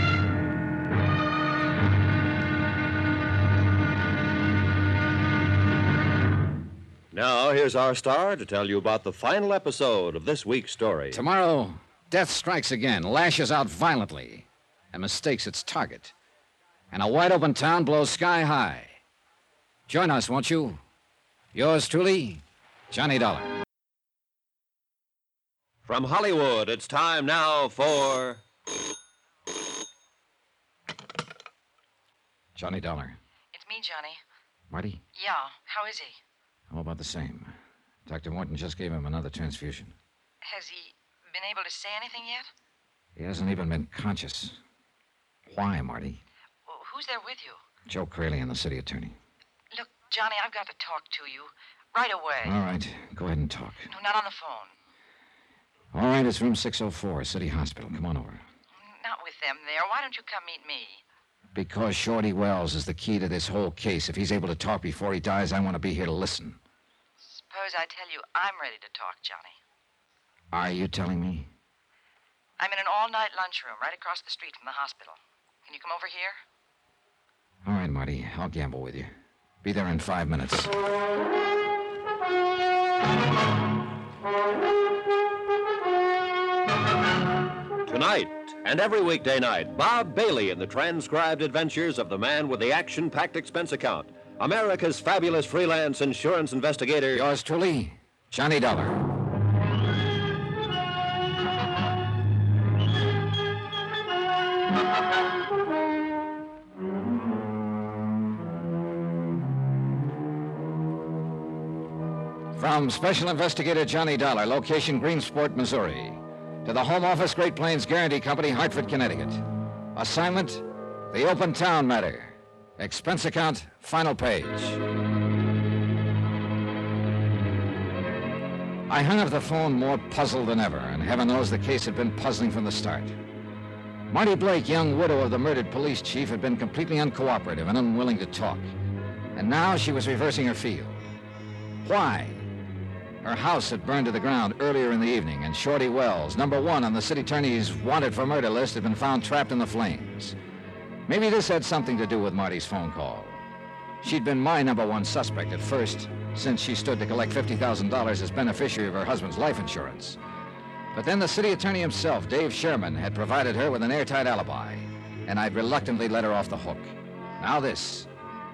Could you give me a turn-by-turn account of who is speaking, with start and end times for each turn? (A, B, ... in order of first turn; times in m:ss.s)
0:07.1-0:11.2 A
0:11.1-0:16.1 B
0:16.9-0:19.0 B
0:19.9-0:20.8 B
0:21.5-0:23.6 B
0:25.9-0:28.4 A
0:32.6-0:33.2 B
0:33.5-0:34.2 C
0:34.7-0:35.0 B
0:35.2-0:36.2 C
0:36.7-0:37.5 B
0:38.1-0:39.9 B
0:40.4-0:42.5 C
0:43.2-0:44.6 B
0:45.5-0:46.2 B
0:46.7-0:47.6 C
0:47.9-0:49.2 B
0:49.7-0:52.6 C
0:52.4-0:53.9 B
0:53.9-0:54.7 C
0:55.9-0:58.4 B
0:58.8-1:01.0 C
1:01.6-1:06.6 B
1:07.2-1:09.6 C
1:10.5-1:11.5 B
1:12.6-1:16.4 C
1:17.6-1:19.1 B
1:19.6-1:20.7 B
1:27.9-1:37.2 A
1:37.1-1:39.0 B
1:52.6-1:59.4 B
2:00.0-2:04.8 B
2:08.9-2:13.2 B
2:14.1-2:18.6 B
2:19.4-2:21.0 B
2:21.8-2:22.5 B
2:23.2-2:30.4 B
2:31.1-2:33.4 B
2:34.0-2:40.2 B
2:40.9-2:48.1 B